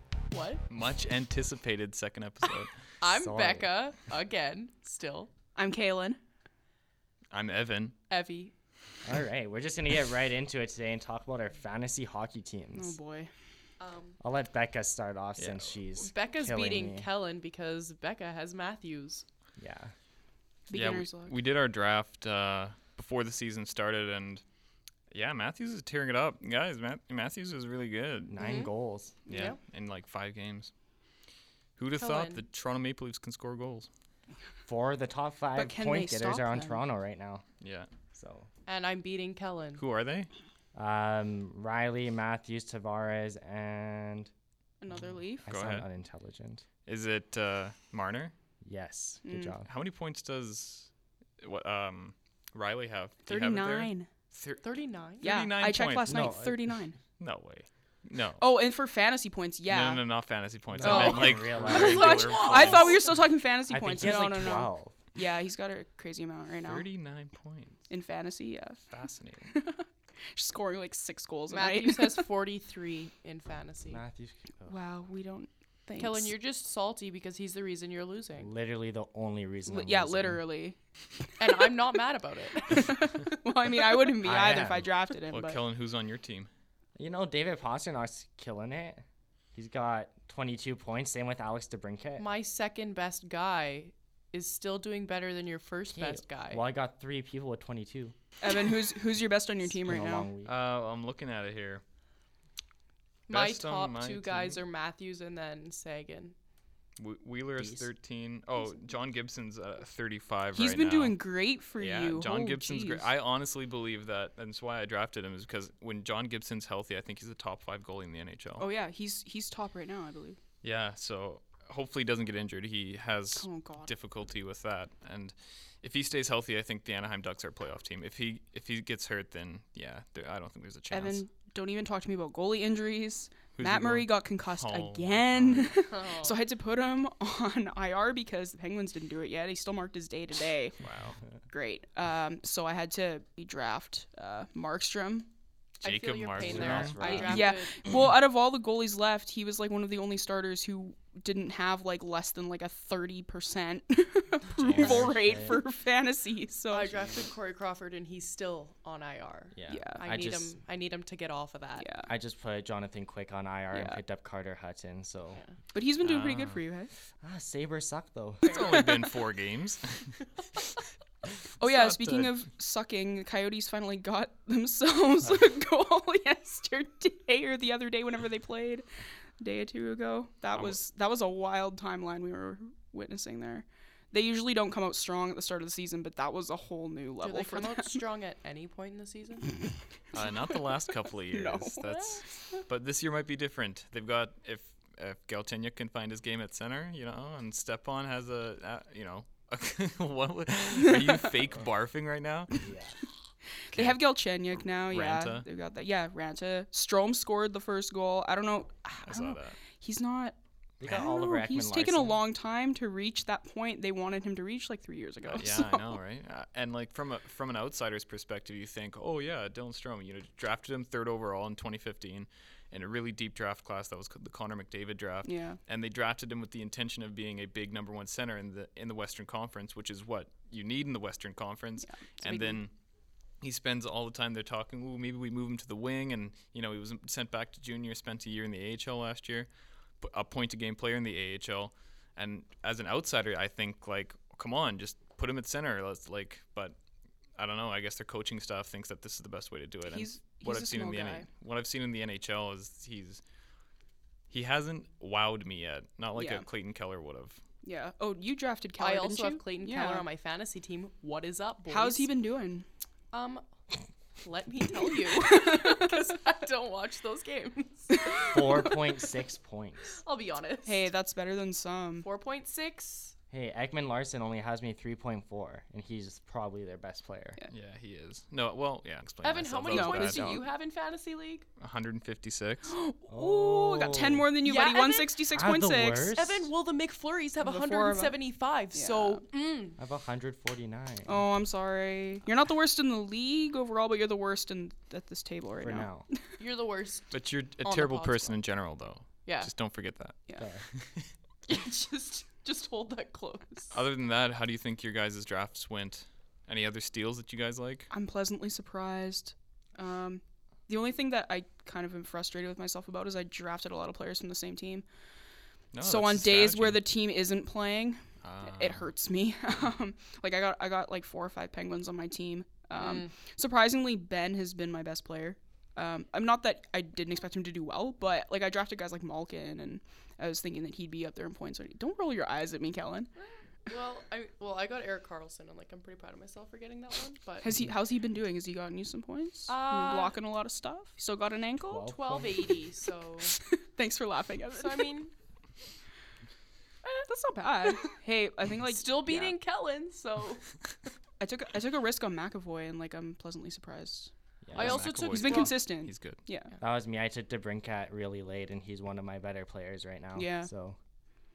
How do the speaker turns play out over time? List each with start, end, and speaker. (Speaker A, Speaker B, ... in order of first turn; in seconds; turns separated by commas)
Speaker A: 0.3-0.6, Speaker B: 0.7-2.7, Speaker A: 3.0-5.3, Speaker C: 3.1-3.7, Speaker D: 5.6-6.2, Speaker B: 7.3-8.0, Speaker A: 8.1-8.5, Speaker C: 9.1-13.0, Speaker D: 12.8-13.3, Speaker A: 13.8-14.2, Speaker C: 14.2-17.1, Speaker B: 15.4-15.7, Speaker A: 16.0-19.3, Speaker C: 19.6-19.9, Speaker D: 20.7-21.3, Speaker B: 20.7-24.4, Speaker B: 25.1-28.4, Speaker C: 28.3-29.2, Speaker A: 28.4-28.7, Speaker A: 29.3-29.6, Speaker B: 29.3-30.7, Speaker B: 31.8-33.9, Speaker A: 32.0-32.4, Speaker C: 34.7-37.5, Speaker D: 35.5-36.8, Speaker B: 37.6-37.9, Speaker C: 38.1-38.5, Speaker A: 38.7-39.8, Speaker B: 39.8-40.3, Speaker C: 40.8-44.3, Speaker D: 44.8-45.5, Speaker C: 45.4-46.6, Speaker B: 45.5-45.9, Speaker B: 46.9-48.3, Speaker C: 48.6-49.7, Speaker D: 49.2-49.5, Speaker B: 49.6-54.6, Speaker D: 53.3-54.1, Speaker A: 54.6-55.3, Speaker B: 55.2-56.2, Speaker D: 55.2-57.0, Speaker C: 56.1-56.6, Speaker B: 57.2-58.4, Speaker D: 58.4-60.0, Speaker B: 59.7-63.1, Speaker C: 60.7-62.8, Speaker D: 60.8-66.9, Speaker A: 60.8-63.1, Speaker C: 63.7-65.0, Speaker B: 66.6-67.8, Speaker D: 67.9-68.8, Speaker B: 68.9-69.5, Speaker D: 69.5-72.3, Speaker A: 71.5-74.0, Speaker C: 73.9-74.8, Speaker D: 74.7-76.3, Speaker A: 76.0-78.5, Speaker C: 78.4-80.4, Speaker D: 79.7-80.8, Speaker A: 81.4-82.8, Speaker D: 81.4-81.7, Speaker D: 82.6-85.6, Speaker C: 84.2-84.9, Speaker B: 85.3-86.5, Speaker C: 87.0-89.0, Speaker C: 89.5-92.3, Speaker A: 92.2-96.6, Speaker C: 95.9-98.2, Speaker D: 98.4-100.3, Speaker C: 99.7-100.5, Speaker B: 100.5-101.8, Speaker A: 103.3-106.3, Speaker B: 103.3-104.6, Speaker B: 107.0-111.2, Speaker C: 107.6-107.9, Speaker D: 110.5-113.1, Speaker B: 111.8-118.7, Speaker D: 118.6-120.4, Speaker B: 120.6-131.2, Speaker D: 123.4-123.9, Speaker D: 130.9-140.8, Speaker B: 133.6-135.7, Speaker A: 135.8-136.4, Speaker B: 140.8-141.2, Speaker D: 141.5-145.3, Speaker B: 145.8-147.4, Speaker A: 145.8-147.8, Speaker C: 146.4-147.6, Speaker D: 147.0-156.9, Speaker C: 154.5-155.6, Speaker A: 156.7-161.9, Speaker C: 159.5-160.6, Speaker D: 159.7-160.0, Speaker D: 161.8-162.1, Speaker C: 162.1-165.4, Speaker D: 163.7-164.0, Speaker D: 165.7-166.9, Speaker B: 166.0-166.6, Speaker C: 167.2-168.6, Speaker D: 168.4-169.1, Speaker B: 168.4-170.2, Speaker B: 171.4-172.4, Speaker D: 171.6-178.9, Speaker D: 179.4-188.0, Speaker A: 187.2-189.7, Speaker B: 190.1-202.7, Speaker D: 191.3-192.7, Speaker D: 200.8-201.3, Speaker C: 202.6-203.0, Speaker D: 203.7-216.0, Speaker B: 203.7-204.1, Speaker B: 204.9-205.4, Speaker B: 209.1-209.6, Speaker C: 210.8-212.2, Speaker B: 215.3-232.7, Speaker D: 225.2-225.6, Speaker D: 231.8-232.6, Speaker B: 233.4-239.5, Speaker B: 240.0-246.8, Speaker B: 247.4-253.2, Speaker D: 249.9-251.3, Speaker B: 254.3-257.4, Speaker D: 256.1-256.5, Speaker D: 257.6-260.1, Speaker A: 258.8-262.1, Speaker D: 261.7-262.7, Speaker A: 263.1-263.4, Speaker A: 264.2-268.7, Speaker D: 265.1-265.9, Speaker D: 268.0-268.2, Speaker C: 268.3-270.0, Speaker A: 269.9-270.9, Speaker D: 270.6-272.1, Speaker A: 272.0-273.1, Speaker C: 273.3-277.4, Speaker B: 277.5-280.3, Speaker A: 279.2-281.5, Speaker D: 279.7-280.5, Speaker B: 281.6-282.7, Speaker D: 282.7-286.1, Speaker C: 283.1-284.3, Speaker A: 284.4-285.2, Speaker C: 285.3-286.5, Speaker A: 286.1-289.8, Speaker D: 287.4-288.2, Speaker D: 288.7-289.2, Speaker C: 289.8-291.2, Speaker D: 291.1-296.2, Speaker C: 295.6-296.1, Speaker A: 296.4-297.1, Speaker B: 297.1-300.2, Speaker A: 297.6-298.4, Speaker A: 299.2-299.5, Speaker C: 300.4-300.6, Speaker B: 300.7-301.1, Speaker A: 301.5-303.8, Speaker B: 303.7-307.9, Speaker D: 307.9-314.9, Speaker B: 315.7-316.9, Speaker D: 315.8-333.1, Speaker B: 318.2-318.9, Speaker A: 322.8-323.1, Speaker A: 333.2-337.5, Speaker D: 337.4-341.9, Speaker A: 339.5-340.2, Speaker C: 341.6-342.5, Speaker A: 341.9-343.4, Speaker D: 343.4-345.0, Speaker A: 344.5-345.1, Speaker D: 347.1-349.4, Speaker A: 348.6-350.6, Speaker D: 351.2-354.1, Speaker C: 354.4-354.8, Speaker B: 354.5-356.2, Speaker A: 354.6-355.6, Speaker D: 354.7-356.5, Speaker C: 356.6-360.8, Speaker D: 360.2-360.5